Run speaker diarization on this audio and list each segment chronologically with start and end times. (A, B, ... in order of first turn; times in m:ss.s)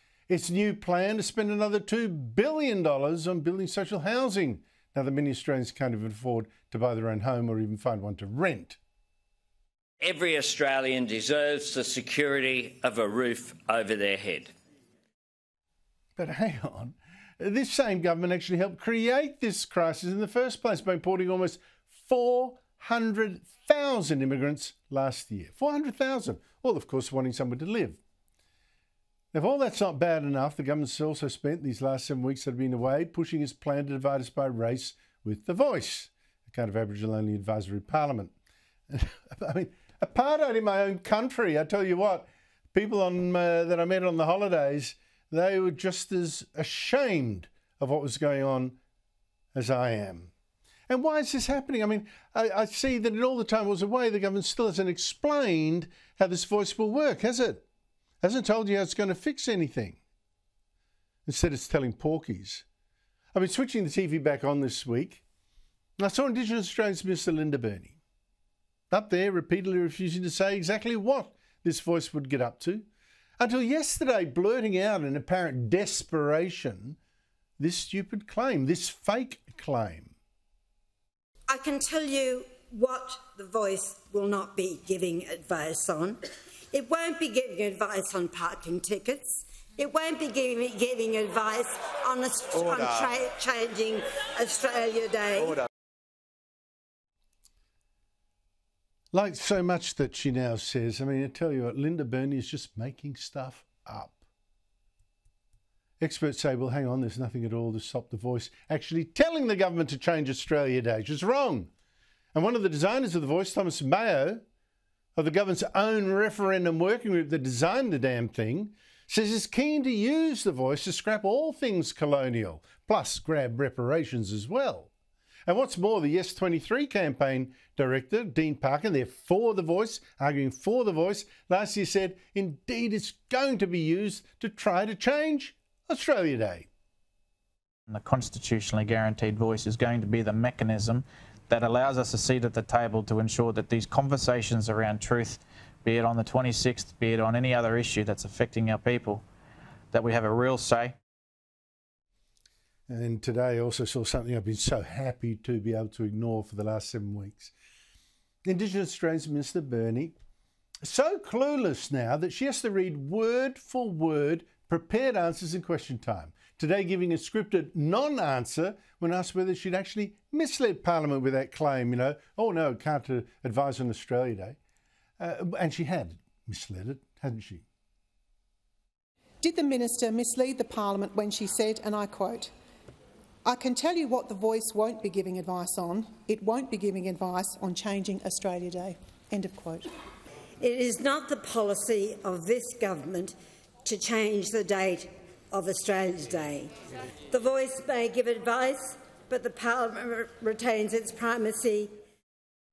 0:00.3-0:08.8 A
0:10.0-0:14.5 B
0:16.2-0:28.0 A
0:29.3-0:38.3 A
0:38.9-0:48.8 A
0:49.6-0:50.3 A
0:50.9-0:57.6 A
0:58.2-1:00.0 A
1:01.3-1:02.6 A
1:03.3-1:05.2 A
1:06.0-1:08.0 A
1:08.9-1:12.9 A
1:13.4-1:17.0 A
1:17.6-1:20.2 A
1:21.5-1:26.2 C
1:26.7-1:35.6 C
1:39.1-1:44.2 A
1:46.0-1:51.7 A
1:52.4-1:54.4 A
1:55.2-2:04.9 A
2:05.5-2:16.7 A
2:17.9-2:29.2 D
2:29.9-2:31.0 D
2:32.9-2:37.5 A
2:38.4-2:40.2 A
2:40.8-2:54.6 A
2:55.2-2:57.6 A
2:59.4-3:02.5 E
3:03.4-3:09.9 E
3:10.6-3:16.7 C
3:17.3-3:21.9 C